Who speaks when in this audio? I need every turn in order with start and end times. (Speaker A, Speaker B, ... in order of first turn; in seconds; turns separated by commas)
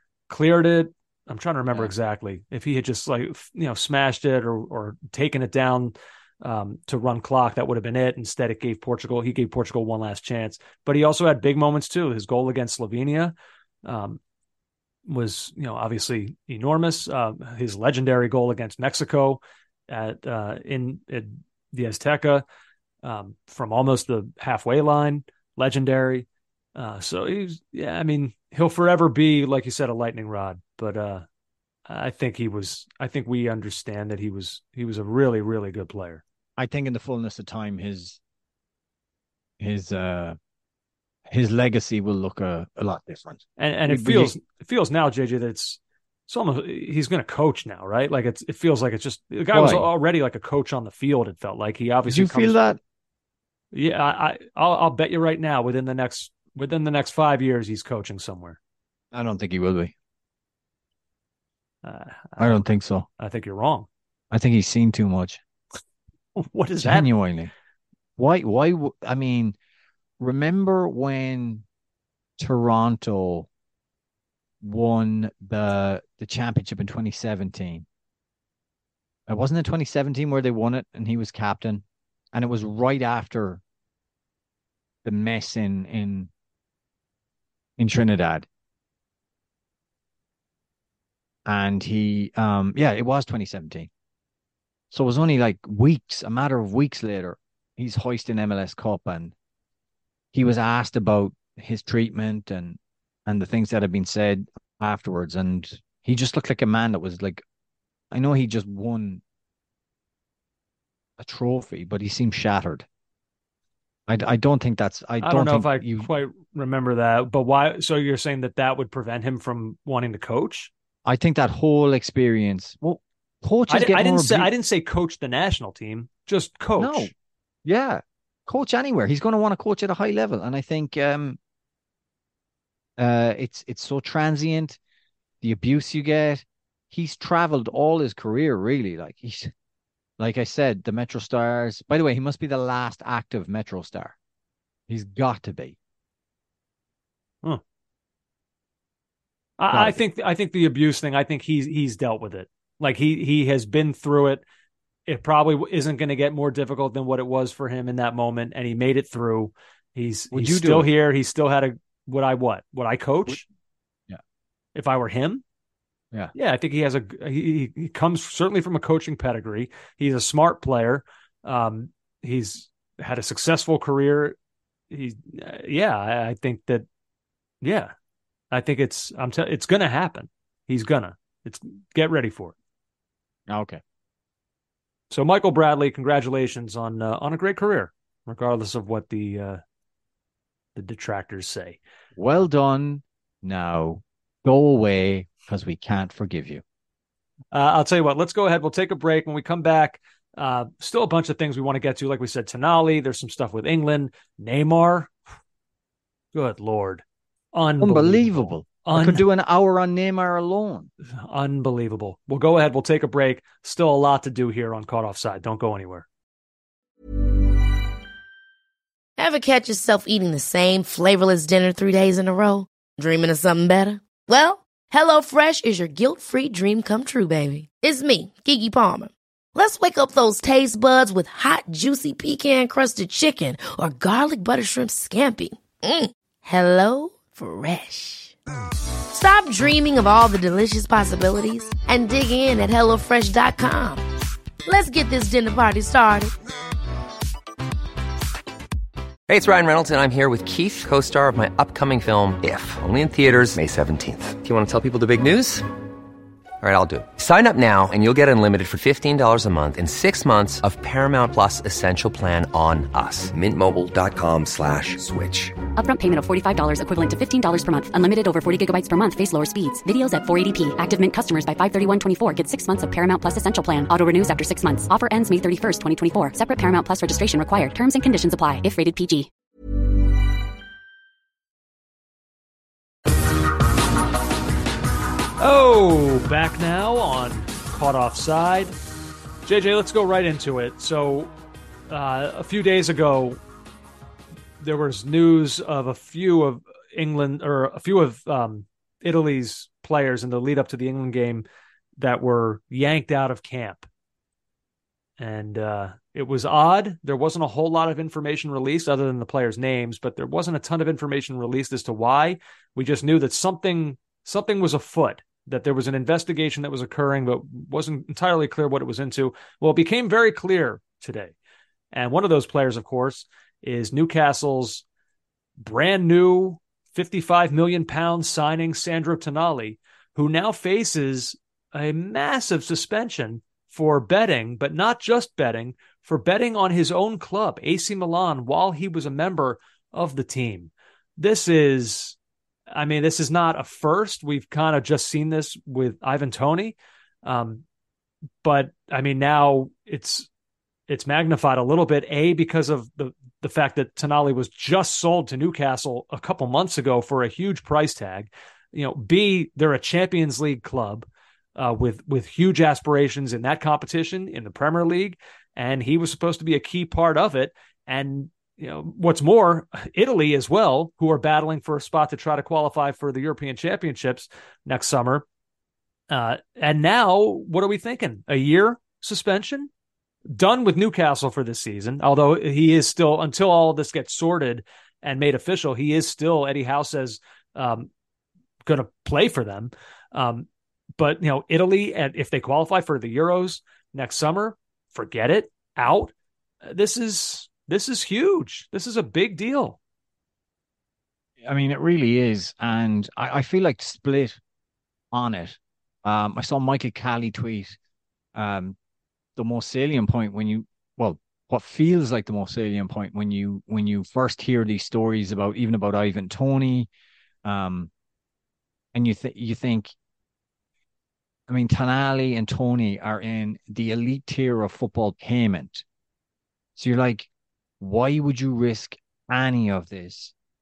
Speaker A: 0.3-14.2, Speaker A: 15.1-22.4, Speaker A: 23.0-31.2, Speaker A: 31.9-36.2, Speaker B: 36.6-38.2, Speaker B: 39.6-40.4, Speaker B: 41.3-44.4, Speaker A: 43.6-52.6, Speaker B: 49.5-49.9, Speaker B: 52.1-52.8, Speaker A: 53.7-58.6, Speaker B: 59.1-59.9, Speaker A: 61.8-62.6, Speaker B: 62.4-63.1, Speaker A: 63.2-63.9, Speaker B: 64.3-65.4, Speaker A: 66.3-67.1, Speaker B: 66.8-67.5, Speaker B: 68.2-69.6, Speaker B: 70.2-71.6, Speaker B: 72.4-73.5, Speaker B: 74.6-77.8, Speaker B: 79.3-83.6, Speaker B: 85.0-86.3, Speaker B: 87.8-88.5, Speaker B: 91.5-93.9, Speaker B: 94.9-99.3, Speaker B: 100.3-107.4, Speaker B: 108.1-109.2, Speaker B: 111.2-112.8, Speaker B: 114.1-116.1, Speaker A: 115.2-120.7, Speaker B: 121.0-124.5, Speaker A: 123.7-127.1, Speaker B: 126.8-127.1, Speaker B: 127.6-131.4, Speaker B: 133.0-134.8, Speaker B: 135.4-139.5, Speaker B: 140.2-144.2, Speaker B: 144.9-145.8, Speaker A: 149.6-154.4, Speaker B: 149.7-150.0, Speaker A: 155.1-163.4, Speaker B: 160.3-160.9, Speaker A: 164.7-165.4, Speaker A: 166.3-174.4, Speaker A: 174.9-176.8, Speaker A: 177.6-177.9, Speaker A: 178.5-182.5, Speaker B: 183.5-183.8, Speaker A: 185.1-189.6, Speaker A: 190.8-191.8, Speaker B: 192.2-196.6, Speaker A: 197.5-205.2, Speaker A: 206.3-207.0, Speaker A: 207.5-209.2, Speaker B: 207.8-210.9, Speaker A: 211.2-216.1, Speaker C: 219.2-238.3, Speaker C: 239.1-244.0, Speaker C: 244.7-246.3, Speaker D: 249.3-255.7, Speaker D: 256.6-265.6, Speaker E: 265.7-279.3, Speaker A: 285.4-288.7, Speaker A: 289.4-291.3, Speaker A: 291.9-293.4, Speaker A: 294.6-301.4, Speaker A: 302.0-303.9, Speaker A: 305.2-321.3, Speaker A: 321.9-324.8, Speaker A: 325.6-342.2, Speaker A: 342.7-347.6, Speaker A: 348.4-350.3, Speaker A: 350.9-375.2, Speaker A: 376.1-379.7, Speaker A: 380.3-387.9, Speaker A: 388.6-390.5, Speaker A: 391.0-396.1, Speaker A: 396.6-399.8, Speaker B: 401.4-404.4, Speaker B: 405.1-407.8, Speaker B: 408.3-408.8, Speaker B: 409.4-416.9, Speaker B: 417.4-417.9, Speaker B: 418.9-419.9, Speaker B: 421.5-425.8, Speaker B: 426.8-427.3, Speaker B: 427.8-430.3